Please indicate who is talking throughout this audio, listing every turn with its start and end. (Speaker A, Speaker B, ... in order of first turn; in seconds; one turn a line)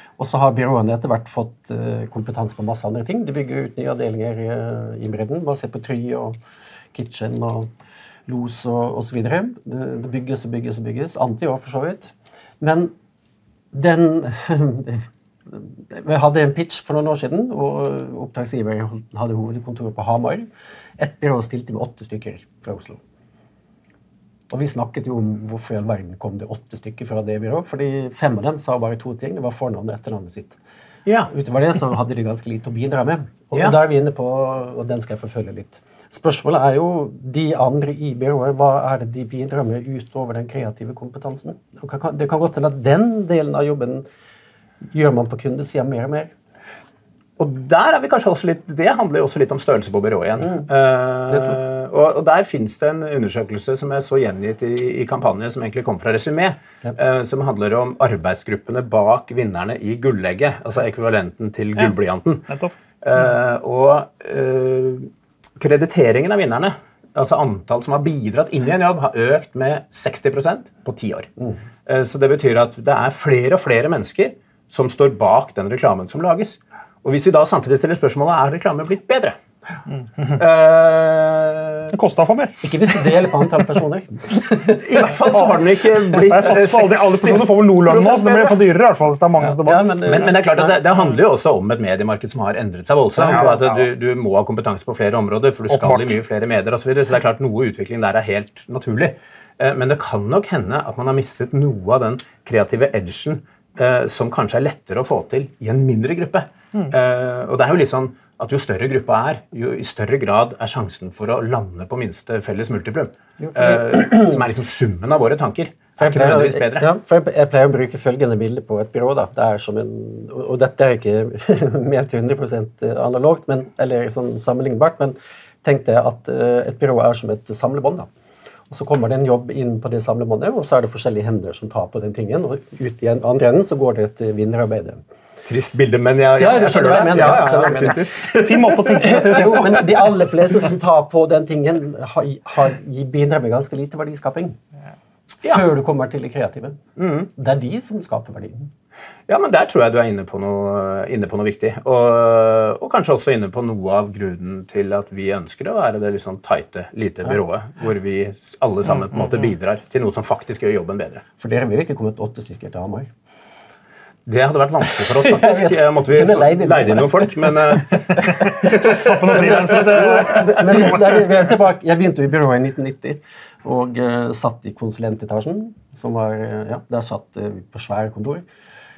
Speaker A: 0.2-6.4
Speaker A: 6.9-7.7
Speaker A: 8.3-12.9
Speaker A: 13.7-20.5
Speaker A: 21.0-23.0
Speaker A: 24.5-30.6
Speaker B: 31.1-31.3
Speaker A: 31.3-44.0
Speaker A: 44.9-46.3
Speaker B: 47.4-62.5
Speaker C: 62.5-62.7
Speaker B: 63.0-71.3
Speaker B: 71.9-79.4
Speaker B: 80.2-81.9
Speaker C: 81.9-82.6
Speaker A: 82.6-85.3
Speaker B: 84.7-88.6
Speaker C: 86.1-89.9
Speaker A: 89.4-90.8
Speaker B: 90.1-116.9
Speaker A: 93.2-93.5
Speaker C: 93.2-93.8
Speaker C: 95.7-96.2
Speaker A: 113.4-114.4
Speaker A: 116.0-128.1
Speaker A: 128.7-135.0
Speaker B: 135.5-139.8
Speaker A: 136.4-138.2
Speaker C: 138.2-140.0
Speaker A: 138.9-144.6
Speaker A: 145.4-148.7
Speaker B: 147.0-147.3
Speaker B: 149.3-161.2
Speaker A: 161.4-163.1
Speaker B: 164.3-169.0
Speaker A: 164.9-178.4
Speaker C: 168.4-171.0